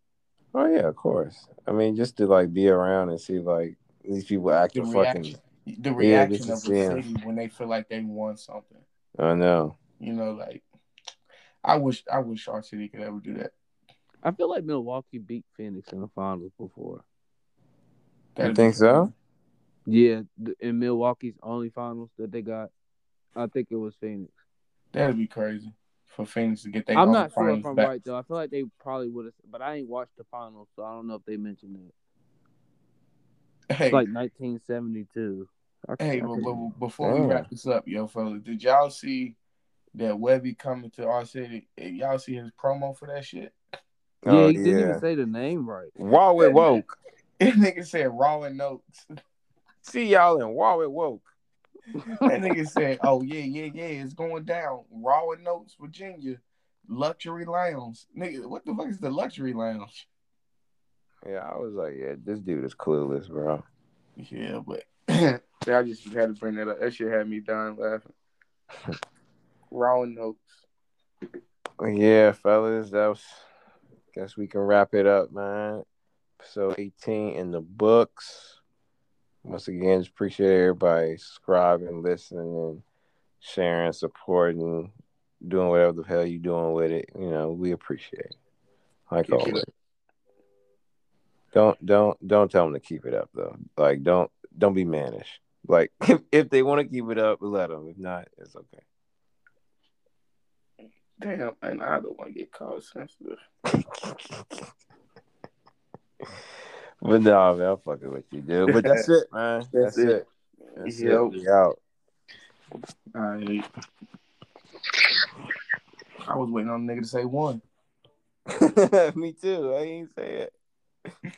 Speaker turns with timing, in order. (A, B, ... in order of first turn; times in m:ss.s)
0:00.5-0:05.4 A
0:04.7-0:08.8 B
0:06.0-0:07.0 A
0:09.2-0:09.8 A
0:10.0-0:10.6 B
0:11.6-0:13.5 B
0:14.2-0:17.0 C
0:18.3-0:19.1 B
0:18.4-0:19.1 A
0:19.9-0:22.7 C
0:23.4-0:24.3 C
0:24.9-0:27.9 B
0:26.9-0:31.9 C
0:33.7-0:34.0 B
0:33.9-0:36.6 C
0:36.0-0:39.4 B
0:37.0-0:37.5 A
0:39.9-0:43.5 B
0:44.2-0:45.0 A
0:44.2-0:45.9 C
0:46.0-0:46.9 A
0:46.4-0:46.8 B
0:47.4-0:49.0 B
0:49.8-0:51.3 A
0:52.0-0:52.3 C
0:52.2-1:00.1 B
1:01.2-1:03.6 A
1:04.2-1:08.1 B
1:09.7-1:10.6 B
1:11.8-1:13.4 A
1:14.1-1:15.8 A
1:16.4-1:18.6 A
1:19.4-1:22.8 A
1:23.4-1:24.9 A
1:25.4-1:28.3 A
1:29.1-1:29.7 A
1:29.2-1:29.6 B
1:31.5-1:38.8 A
1:41.2-1:43.4 B
1:43.8-1:44.6 A
1:47.0-1:50.2 A
1:48.7-1:49.0 B
1:49.7-1:50.2 B
1:50.8-1:51.8 A
1:50.8-1:51.3 B
1:53.1-1:53.6 B
1:56.3-1:57.6 B
1:58.5-2:00.5 A